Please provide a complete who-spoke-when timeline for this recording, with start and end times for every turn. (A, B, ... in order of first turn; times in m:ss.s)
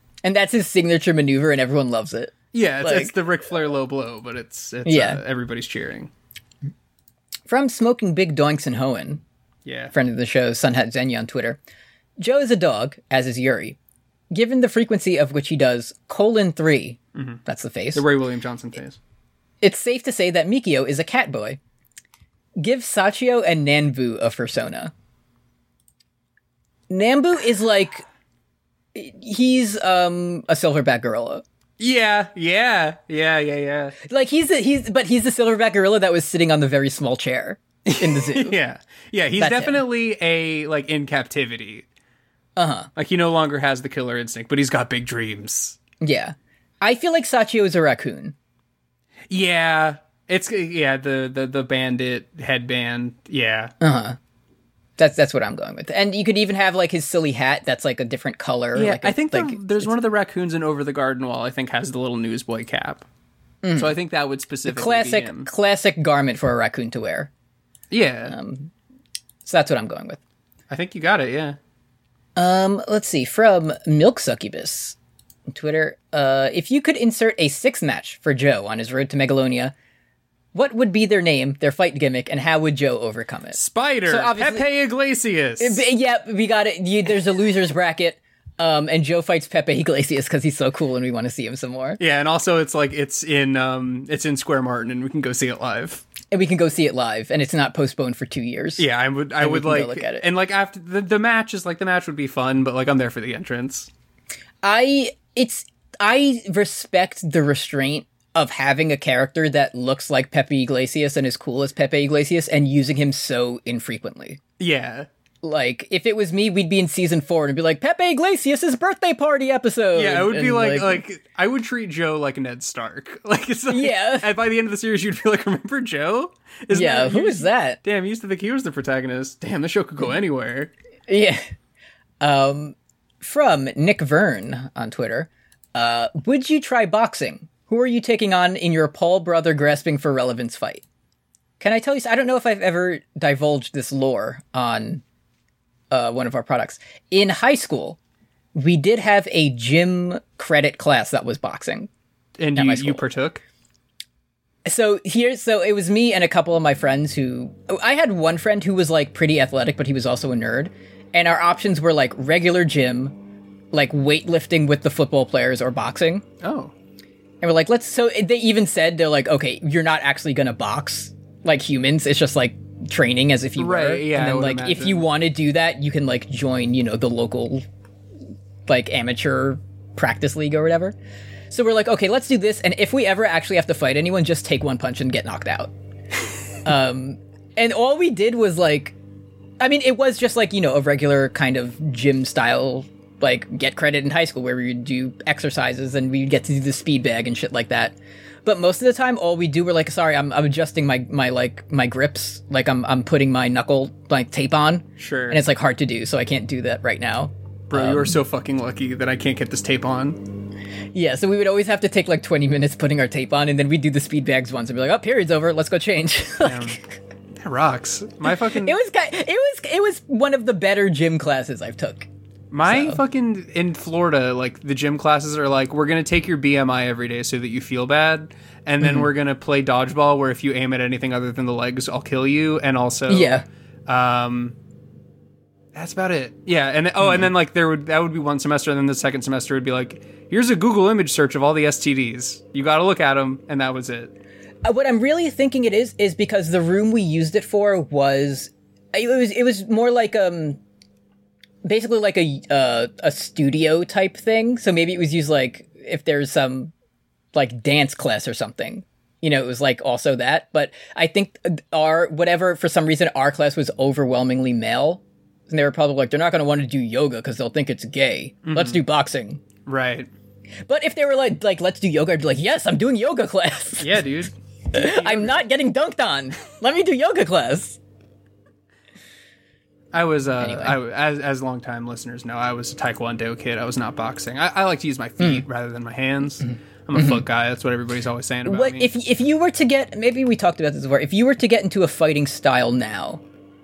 0:00.2-0:03.1 A
0:02.5-0:06.1 B
0:04.8-0:05.2 A
0:07.5-0:09.2 A
0:09.6-0:09.9 B
0:09.9-0:11.6 A
0:12.2-0:13.8 A
0:14.3-0:18.0 A
0:17.1-0:17.4 B
0:17.9-0:19.0 B
0:19.6-0:21.6 A
0:22.6-0:24.9 A
0:26.9-0:28.0 A
0:28.9-0:31.4 A
0:31.8-0:34.0 B
0:34.0-0:38.6 A
0:37.8-0:41.8 B
0:39.4-0:39.8 A
0:42.6-0:42.9 A
0:42.9-0:45.8 B
0:46.0-0:48.3 A
0:49.3-0:53.7 B
0:53.8-0:54.2 A
0:55.0-0:59.9 A
0:58.7-1:03.0 B
1:03.6-1:03.9 A
1:03.7-1:05.5 B
1:04.6-1:07.3 A
1:07.9-1:08.3 B
1:08.3-1:08.7 A
1:09.4-1:10.2 A
1:10.7-1:11.6 B
1:12.4-1:15.0 A
1:15.5-1:19.7 A
1:20.5-1:24.6 A
1:23.5-1:25.8 B
1:25.6-1:32.0 A
1:32.0-1:36.0 B
1:36.3-1:40.2 A
1:38.8-1:43.9 B
1:44.6-1:54.4 A
1:54.6-1:55.1 B
1:55.4-2:01.0 A
1:59.9-2:10.7 B
2:03.7-2:04.3 A
2:06.7-2:07.8 A
2:11.1-2:11.4 A
2:12.2-2:20.8 A
2:21.6-2:25.0 A
2:25.9-2:28.0 A
2:28.5-2:31.9 A
2:32.4-2:33.4 B
2:32.5-2:33.0 A
2:34.6-2:43.2 A
2:43.7-2:46.2 A
2:46.4-2:46.7 B
2:47.4-2:57.6 A
2:53.6-2:55.0 B
2:58.7-3:00.9 A
3:01.5-3:05.7 A
3:06.6-3:08.9 A
3:09.6-3:28.2 A
3:25.0-3:25.4 B
3:27.7-3:30.3 B
3:30.9-3:36.8 A
3:36.4-3:36.8 B
3:37.4-3:38.8 B
3:38.6-3:42.1 A
3:42.5-3:54.6 B
3:42.6-3:43.0 A
3:48.8-3:49.1 A
3:53.1-3:53.4 A
3:55.7-4:04.1 B
4:04.6-4:10.6 A
4:11.6-4:16.7 A
4:17.3-4:29.4 A
4:28.4-4:28.8 B
4:29.6-4:30.1 B
4:30.7-4:34.0 A
4:33.8-4:35.4 B
4:34.7-4:37.8 A
4:39.9-4:48.9 B
4:40.4-4:40.8 A
4:45.2-4:45.4 A
4:46.5-4:47.2 A
4:48.4-4:53.2 A